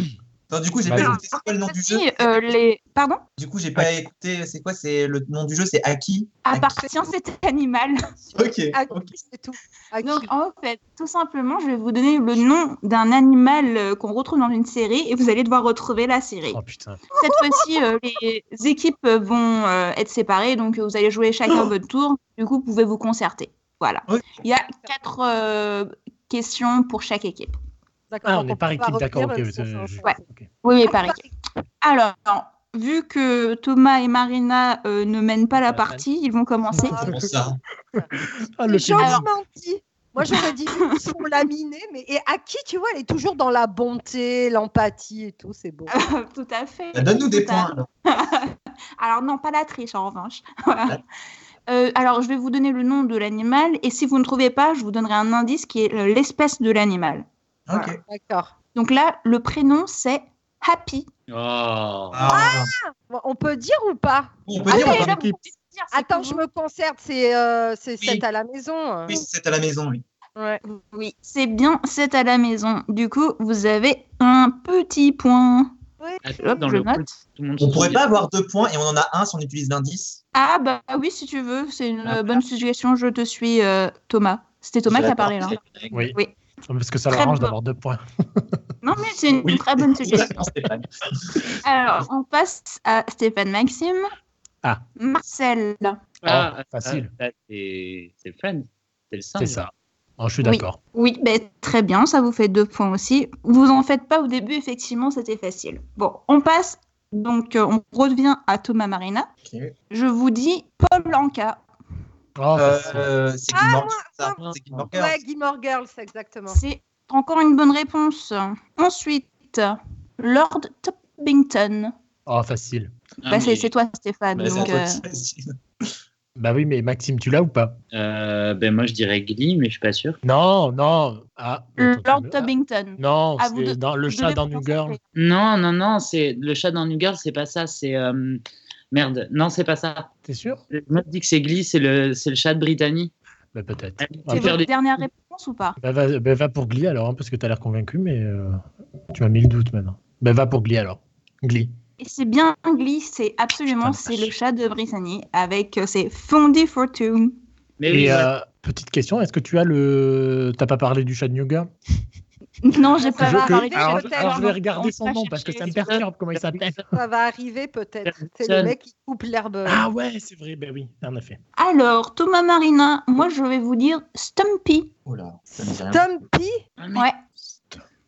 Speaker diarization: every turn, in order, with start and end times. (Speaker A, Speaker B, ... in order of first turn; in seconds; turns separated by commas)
Speaker A: 0.5-2.5, Speaker B: 0.8-1.2, Speaker C: 1.0-3.2, Speaker A: 3.4-6.8, Speaker C: 6.4-8.0, Speaker A: 8.3-9.1, Speaker D: 8.7-10.3, Speaker C: 10.0-16.6, Speaker B: 16.5-17.0, Speaker C: 17.2-27.5, Speaker D: 17.2-17.6, Speaker D: 28.1-30.2, Speaker B: 28.2-30.5, Speaker C: 30.0-31.2, Speaker D: 30.9-31.2, Speaker C: 31.8-37.1, Speaker B: 35.7-36.0, Speaker B: 36.8-37.1, Speaker D: 36.8-38.1, Speaker A: 37.0-37.6, Speaker B: 37.9-39.3, Speaker D: 38.6-45.9, Speaker C: 39.0-39.2, Speaker C: 45.9-51.0, Speaker A: 46.9-47.9, Speaker C: 51.7-57.9, Speaker A: 57.7-58.0, Speaker D: 58.0-58.5, Speaker C: 58.7-61.1, Speaker E: 61.3-62.3, Speaker A: 62.1-62.7, Speaker D: 62.3-65.2, Speaker A: 64.5-65.2, Speaker C: 64.7-66.4, Speaker B: 64.8-65.4, Speaker D: 65.9-69.1, Speaker A: 69.0-70.0, Speaker D: 70.3-70.6, Speaker C: 70.6-75.7, Speaker E: 76.2-78.2, Speaker C: 76.4-77.1, Speaker A: 77.6-80.2, Speaker C: 80.3-85.6, Speaker A: 84.9-86.1, Speaker B: 85.9-88.5, Speaker C: 87.1-87.5, Speaker C: 88.8-90.3, Speaker A: 89.4-91.6, Speaker C: 91.6-94.0, Speaker C: 95.0-96.0, Speaker E: 96.2-99.6, Speaker B: 96.2-97.1, Speaker B: 99.4-100.8, Speaker C: 100.4-109.3, Speaker A: 109.4-109.7, Speaker C: 109.9-111.6, Speaker B: 112.4-113.1, Speaker A: 112.5-115.2, Speaker D: 113.5-116.6, Speaker E: 114.4-114.8, Speaker C: 116.5-121.9, Speaker B: 122.2-122.9, Speaker E: 123.2-123.7, Speaker C: 123.3-125.0, Speaker A: 124.3-125.9, Speaker B: 126.3-127.8, Speaker E: 127.9-130.2, Speaker B: 130.2-135.0, Speaker C: 131.8-135.0, Speaker E: 135.1-138.4, Speaker E: 138.9-140.1, Speaker B: 140.2-140.6, Speaker E: 140.7-143.1, Speaker B: 143.5-144.6, Speaker E: 144.0-144.7, Speaker C: 144.3-145.8, Speaker B: 145.8-148.6, Speaker B: 149.1-151.7, Speaker C: 152.0-157.4, Speaker B: 153.7-154.3, Speaker E: 157.8-158.3, Speaker B: 157.9-161.7, Speaker C: 162.6-165.8, Speaker D: 163.0-164.5, Speaker B: 163.2-166.8, Speaker E: 165.6-166.8, Speaker D: 166.9-169.8, Speaker E: 168.0-168.7, Speaker B: 169.6-171.4, Speaker C: 171.6-174.9, Speaker A: 175.1-176.0, Speaker D: 175.6-176.6, Speaker E: 176.8-177.1